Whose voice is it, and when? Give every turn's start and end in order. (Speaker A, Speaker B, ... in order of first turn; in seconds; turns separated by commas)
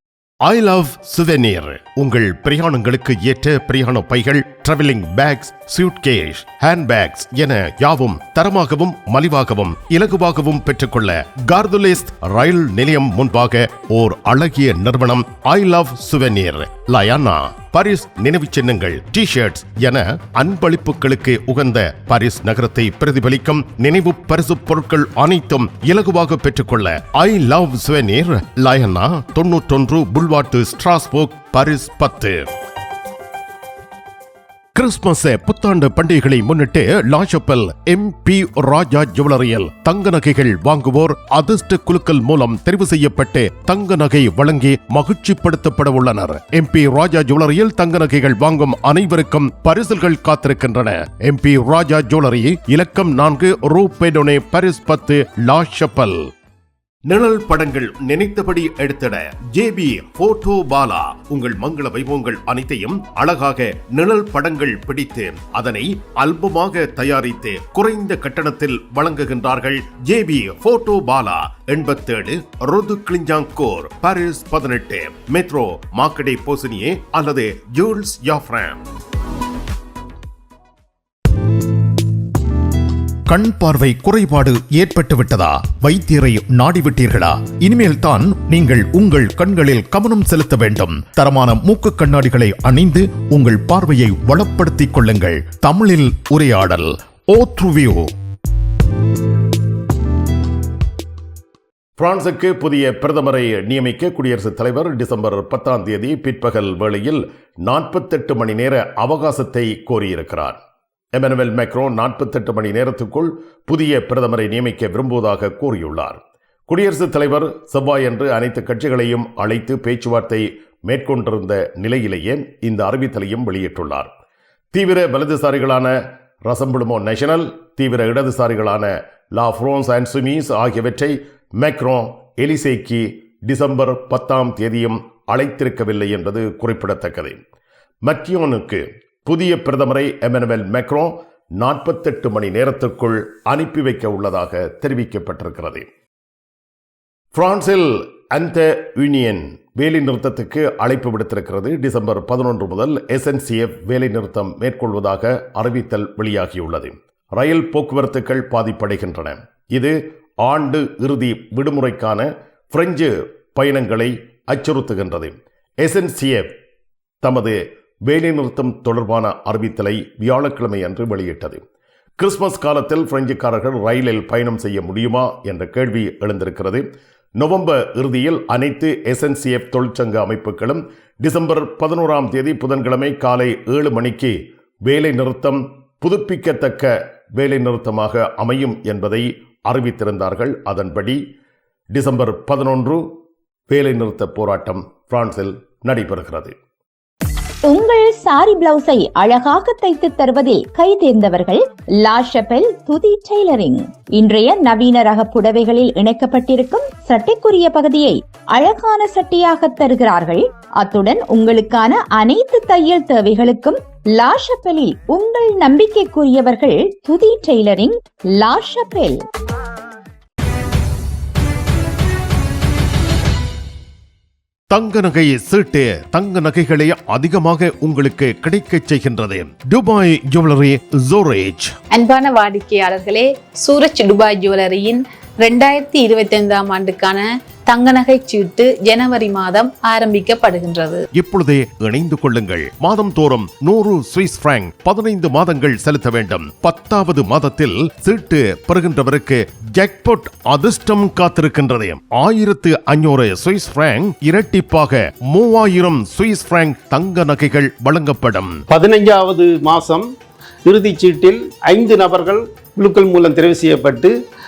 Speaker A: 0.4-32.5, Speaker A: 34.7-56.2, Speaker A: 57.1-78.8, Speaker A: 83.3-88.1, Speaker B: 87.6-90.3, Speaker A: 88.8-91.2, Speaker B: 91.2-94.4, Speaker A: 94.2-98.1, Speaker A: 102.0-110.6, Speaker A: 111.1-124.1, Speaker A: 124.7-137.4, Speaker A: 138.0-145.9, Speaker A: 147.3-166.5, Speaker A: 167.2-171.6, Speaker A: 172.2-191.2, Speaker A: 191.9-193.1, Speaker A: 193.7-196.5, Speaker C: 197.7-219.2, Speaker A: 224.7-231.7, Speaker D: 231.9-241.0, Speaker A: 241.1-258.6, Speaker E: 258.7-260.1, Speaker E: 260.6-264.1